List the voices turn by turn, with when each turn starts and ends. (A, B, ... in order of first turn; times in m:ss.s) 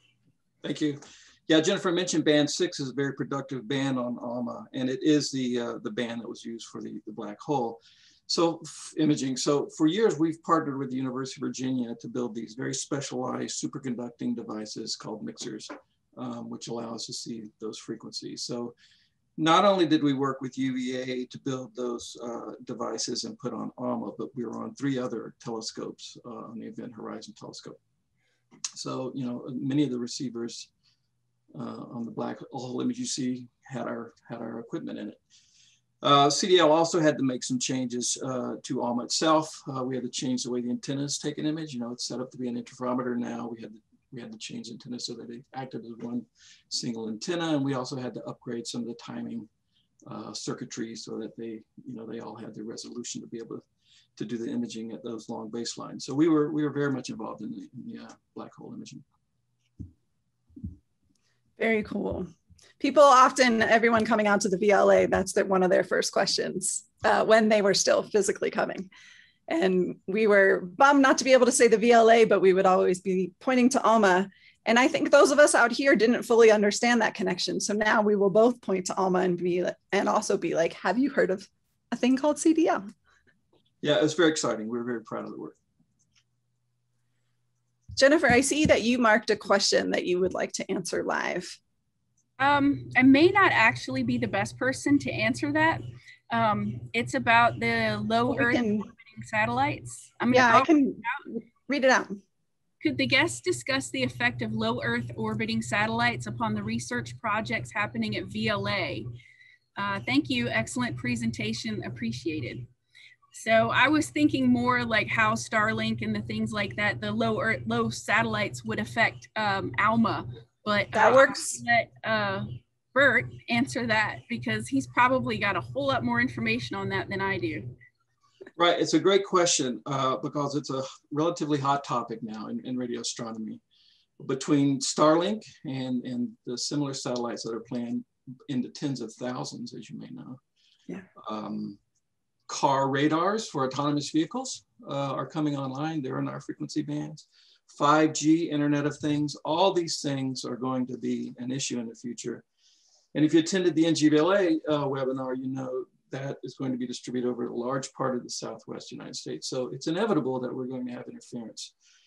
0:00.6-0:18.7 A
0:19.4-0:27.8 A
0:28.8-0:30.7 A
0:31.6-0:35.2 A
0:36.0-0:49.5 A
0:50.1-0:53.6 A
0:54.2-0:59.0 A
1:01.6-1:02.3 B
1:02.8-1:08.9 B
1:09.5-1:22.9 B
1:23.8-1:25.6 A
1:28.0-1:31.6 B
1:32.4-1:41.2 C
1:38.3-1:38.9 B
1:40.3-1:42.2 B
1:42.8-1:49.1 C
1:49.8-1:52.7 C
1:53.3-2:07.7 C
2:01.0-2:01.6 B
2:08.6-2:13.6 A
2:14.2-2:20.4 A
2:21.2-2:21.8 A
2:22.5-2:32.4 A
2:33.1-2:41.7 A